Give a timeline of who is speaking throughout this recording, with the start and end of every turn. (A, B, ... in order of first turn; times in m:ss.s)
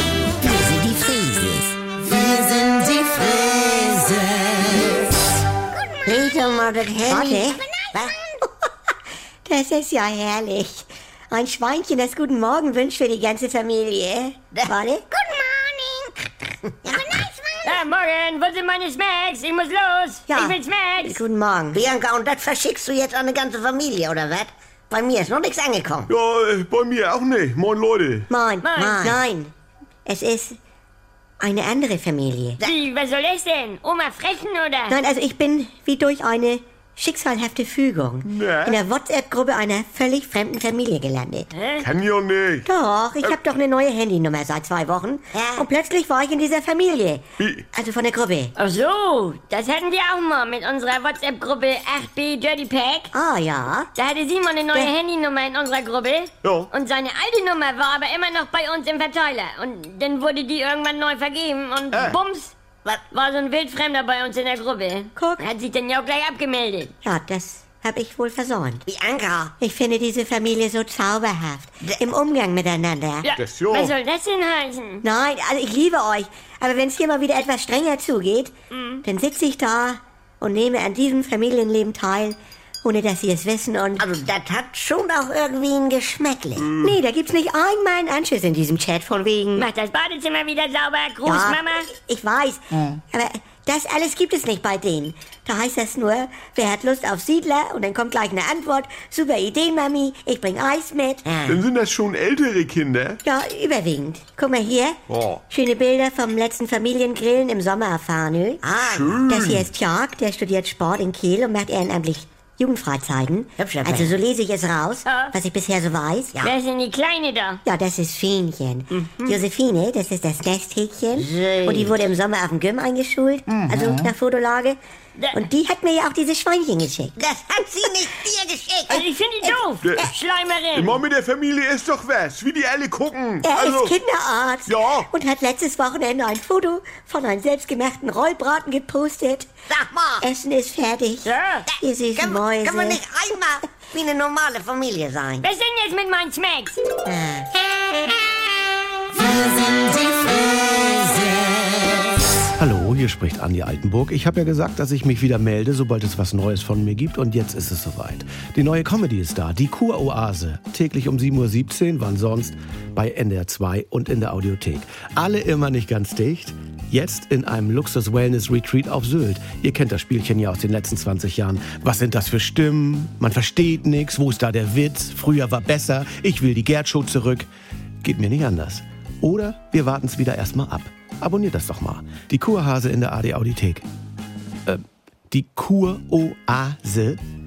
0:00.4-0:01.7 A
0:02.5-0:04.9 A
0:06.0-0:08.3 A
0:07.0-0:07.6 B
0:09.4-0:15.0 B
0:14.5-0:17.8 A
0:17.6-0:21.2 C
0:20.3-0:21.8 B
0:21.7-0:26.1 A
0:26.1-0:28.3 D
0:28.3-0:29.5 B
0:28.6-0:29.2 C
0:30.0-0:30.6 B
0:31.4-0:32.6 B
0:32.6-0:35.0 C
0:34.9-0:41.5 B
0:38.2-0:38.8 D
0:41.5-0:41.9 C
0:41.8-0:42.7 D
0:42.7-0:48.5 B
0:45.3-0:45.6 A
0:47.4-0:47.7 D
0:48.6-0:53.1 C
0:53.1-0:53.9 B
0:53.9-1:02.5 C
0:56.4-0:56.7 D
1:01.9-1:02.2 D
1:03.1-1:06.9 C
1:05.2-1:05.5 B
1:07.0-1:08.9 B
1:08.9-1:09.5 A
1:09.6-1:13.3 B
1:13.2-1:15.0 C
1:13.3-1:13.9 D
1:15.0-1:18.5 B
1:18.7-1:19.0 C
1:19.0-1:24.1 B
1:24.0-1:26.7 A
1:26.6-1:26.9 D
1:26.8-1:29.7 B
1:29.6-1:31.9 C
1:31.2-1:41.4 B
1:41.2-1:41.6 A
1:41.4-1:43.2 D
1:43.2-1:48.7 B
1:45.1-1:45.4 D
1:48.6-1:49.2 A
1:48.8-1:49.7 D
1:49.3-1:56.4 B
1:53.6-1:54.2 A
1:55.0-1:55.3 C
1:56.4-1:57.6 C
1:57.6-2:04.8 B
1:58.9-1:59.4 C
2:01.1-2:02.0 A
2:03.6-2:04.1 A
2:05.2-2:05.4 C
2:05.3-2:07.1 B
2:07.2-2:09.0 A
2:08.9-2:11.0 C
2:09.8-2:10.1 D
2:10.7-2:14.0 D
2:13.4-2:19.5 B
2:14.7-2:15.1 D
2:19.7-2:20.2 A
2:20.2-2:23.0 B
2:21.2-2:21.7 C
2:22.2-2:25.4 A
2:25.4-2:26.8 C
2:27.0-2:27.5 B
2:29.2-2:31.3 A
2:32.6-2:57.5 E
2:58.0-3:03.8 E
3:04.6-3:07.2 E